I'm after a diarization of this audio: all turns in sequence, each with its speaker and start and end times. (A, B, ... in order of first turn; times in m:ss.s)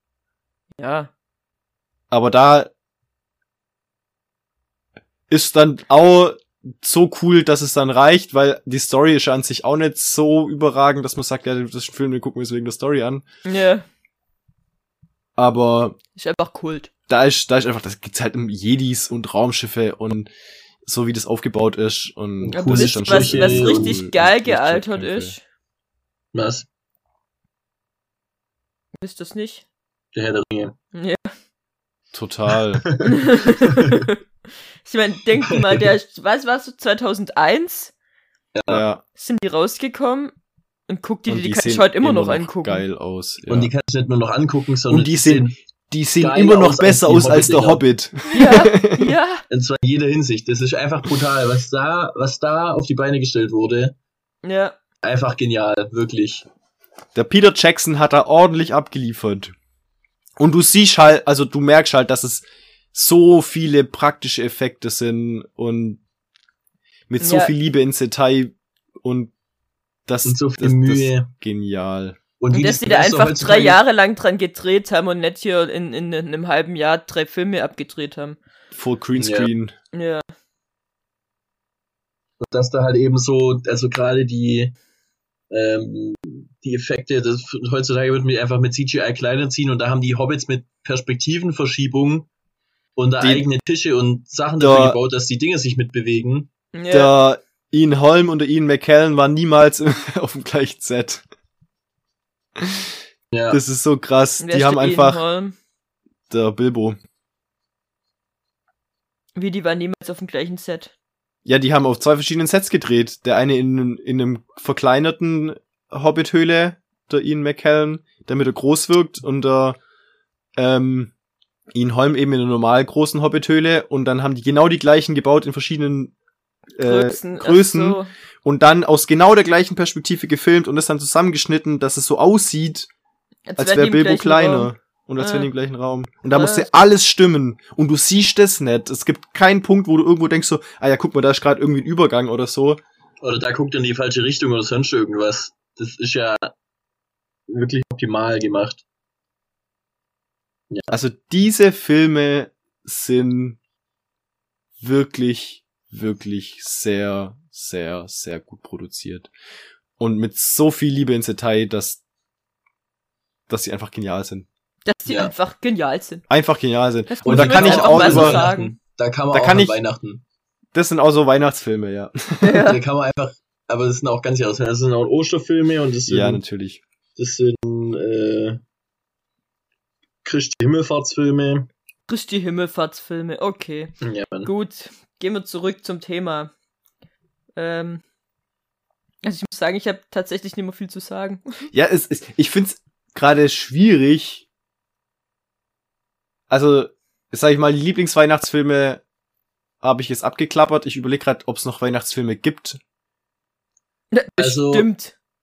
0:00.8-0:01.1 A
0:02.1-0:02.7 B
0:05.3-0:13.2 B
0:13.4-0:13.8 A
0:15.4-0:16.0 B
0:16.2-0:16.9 A
0:17.1-0:20.3 B
0:20.8-0:25.3 B
0:22.4-0:24.0 C
0:22.5-0:25.4 A
0:26.3-0:26.6 C
0:29.0-0:29.6 A
0:30.1-0:30.8 C
0:30.9-0:31.3 A
0:32.1-0:32.9 B
0:32.8-0:34.0 C
0:33.0-0:34.2 A
0:34.8-0:37.9 A
0:35.5-0:35.8 C
0:38.5-0:38.8 C
0:38.7-0:39.0 B
0:39.2-0:40.3 A
0:40.9-0:42.8 A
0:41.3-0:43.7 B
0:43.5-0:45.5 C
0:44.9-0:49.1 B
0:46.2-0:47.8 C
0:48.3-0:49.4 A
0:49.5-0:53.9 C
0:54.4-0:54.7 A
0:55.0-0:56.4 C
0:57.1-0:59.5 B
1:00.4-1:06.0 B
1:07.1-1:09.3 B
1:07.2-1:07.5 A
1:10.1-1:12.2 B
1:10.2-1:11.3 C
1:12.4-1:13.8 C
1:12.5-1:18.4 A
1:18.7-1:19.7 B
1:19.2-1:19.5 C
1:19.9-1:20.2 A
1:22.4-1:24.7 C
1:25.5-1:32.3 C
1:33.0-1:36.5 C
1:33.2-1:33.5 B
1:34.6-1:35.0 B
1:36.7-1:37.1 A
1:36.9-1:41.2 B
1:42.6-1:42.9 B
1:43.3-1:43.6 C
1:43.5-1:45.2 B
1:44.4-1:45.5 A
1:46.3-1:47.0 B
1:49.4-1:50.9 A
1:51.4-1:59.8 B
2:00.6-2:01.1 B
2:01.7-2:06.1 B
2:06.8-2:12.9 B
2:06.8-2:08.1 A
2:13.5-2:15.5 A
2:13.6-2:22.8 B
2:16.3-2:16.7 A
2:23.2-2:26.5 C
2:27.5-2:28.8 C
2:30.9-2:33.6 B
2:34.8-2:39.3 B
2:40.0-2:42.0 B
2:43.5-2:44.5 B
2:44.8-2:46.2 A
2:45.1-2:45.3 C
2:46.3-2:48.4 B
2:47.1-2:48.8 A
2:47.2-2:50.2 C
2:49.3-2:49.8 B
2:50.7-2:52.7 B
2:52.4-2:52.8 A
2:52.6-2:56.4 C
2:56.1-2:56.8 B
2:57.2-2:58.6 C
3:00.2-3:01.7 C
3:02.1-3:03.9 A
3:04.0-3:04.5 C
3:04.4-3:06.5 A
3:07.6-3:08.0 A
3:09.2-3:11.7 A
3:11.7-3:14.4 B
3:16.5-3:19.0 B
3:19.8-3:22.8 B
3:24.1-3:25.1 A
3:24.4-3:24.9 C